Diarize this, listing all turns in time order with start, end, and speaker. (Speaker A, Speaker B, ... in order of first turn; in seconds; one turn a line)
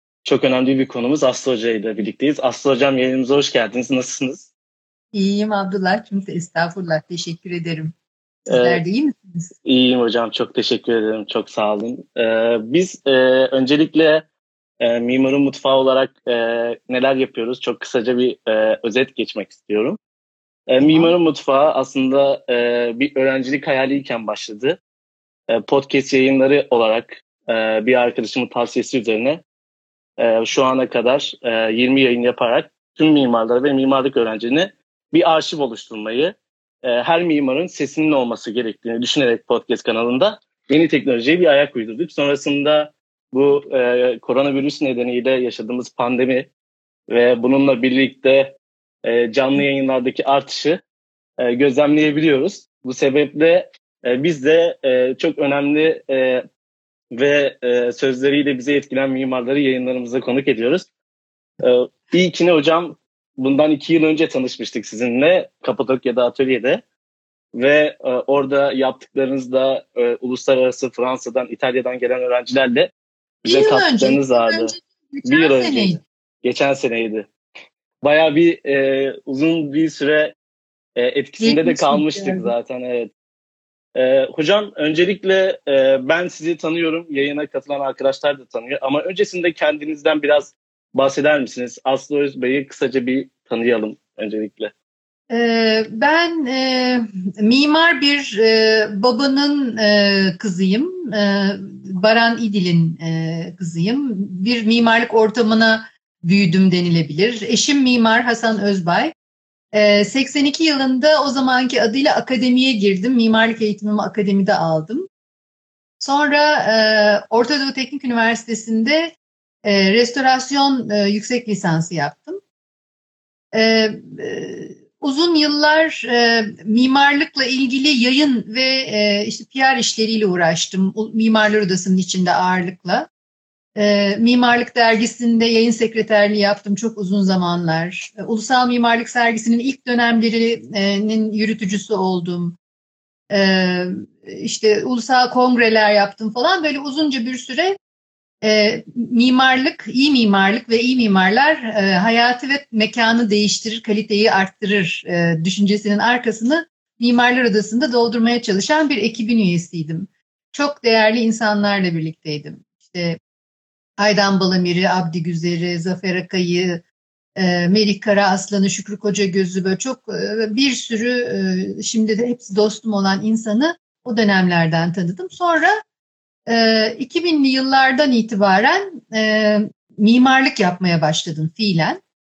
Speaker A: 0.2-4.5
Speaker B: 5.1-7.9
Speaker A: 8.5-8.8
Speaker B: 8.5-9.5
Speaker A: 9.6-14.2
Speaker A: 14.8-20.0
Speaker A: 20.7-24.8
Speaker B: 20.8-21.1
Speaker A: 25.5-29.4
Speaker A: 30.2-46.5
Speaker A: 47.1-50.8
Speaker A: 51.4-56.4
Speaker A: 57.1-60.9
Speaker A: 61.6-66.8
Speaker A: 67.5-72.9
Speaker A: 73.4-74.7
Speaker B: 73.5-76.0
Speaker A: 75.2-77.3
Speaker A: 78.0-80.3
Speaker A: 81.0-83.1
Speaker B: 81.4-82.5
Speaker A: 83.9-94.7
Speaker B: 95.3-109.1
Speaker B: 109.7-115.1
Speaker B: 116.0-122.4
Speaker B: 123.5-133.1
Speaker B: 133.8-142.6
Speaker B: 143.3-147.8
Speaker B: 148.4-163.2
Speaker B: 164.0-166.8
Speaker B: 167.3-175.7
Speaker B: 176.5-182.0